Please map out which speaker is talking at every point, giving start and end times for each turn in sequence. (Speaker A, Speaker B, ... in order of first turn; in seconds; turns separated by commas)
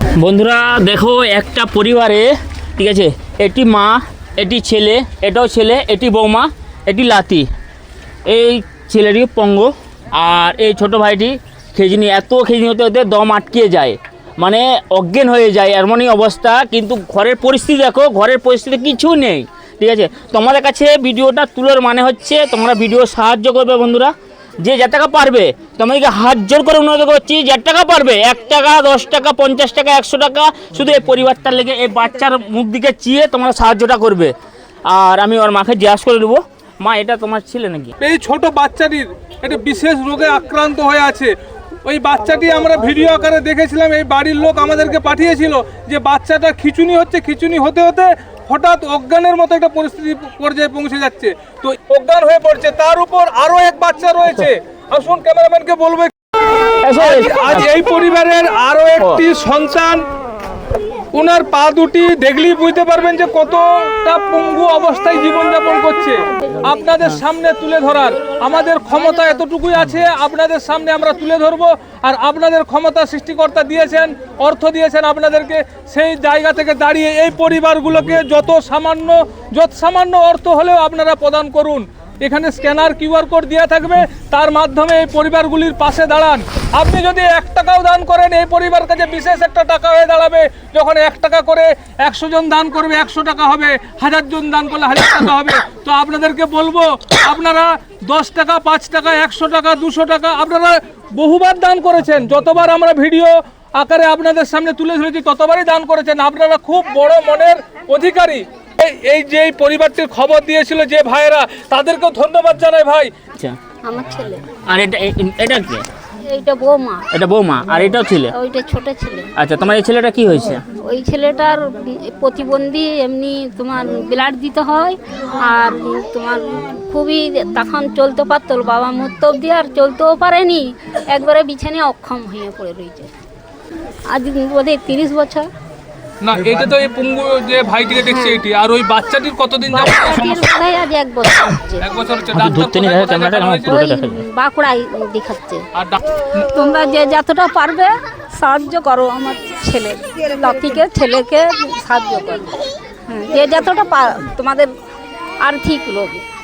Speaker A: 0.2-7.5, Speaker A: 8.2-34.3, Speaker A: 34.9-37.9, Speaker B: 38.0-41.3, Speaker B: 41.8-56.1, Speaker A: 56.8-57.7, Speaker B: 57.0-60.0, Speaker B: 61.1-113.1, Speaker C: 113.8-114.5, Speaker A: 114.7-115.9, Speaker C: 116.2-117.1, Speaker A: 117.1-118.3, Speaker C: 118.3-119.3, Speaker A: 119.3-120.6, Speaker C: 120.8-133.1, Speaker C: 134.1-135.5, Speaker B: 136.2-140.2, Speaker C: 138.0-138.4, Speaker C: 139.7-141.8, Speaker A: 140.0-140.3, Speaker B: 141.8-143.8, Speaker A: 142.3-144.2, Speaker C: 143.7-145.6, Speaker B: 145.7-146.2, Speaker C: 146.2-154.7, Speaker C: 155.4-156.2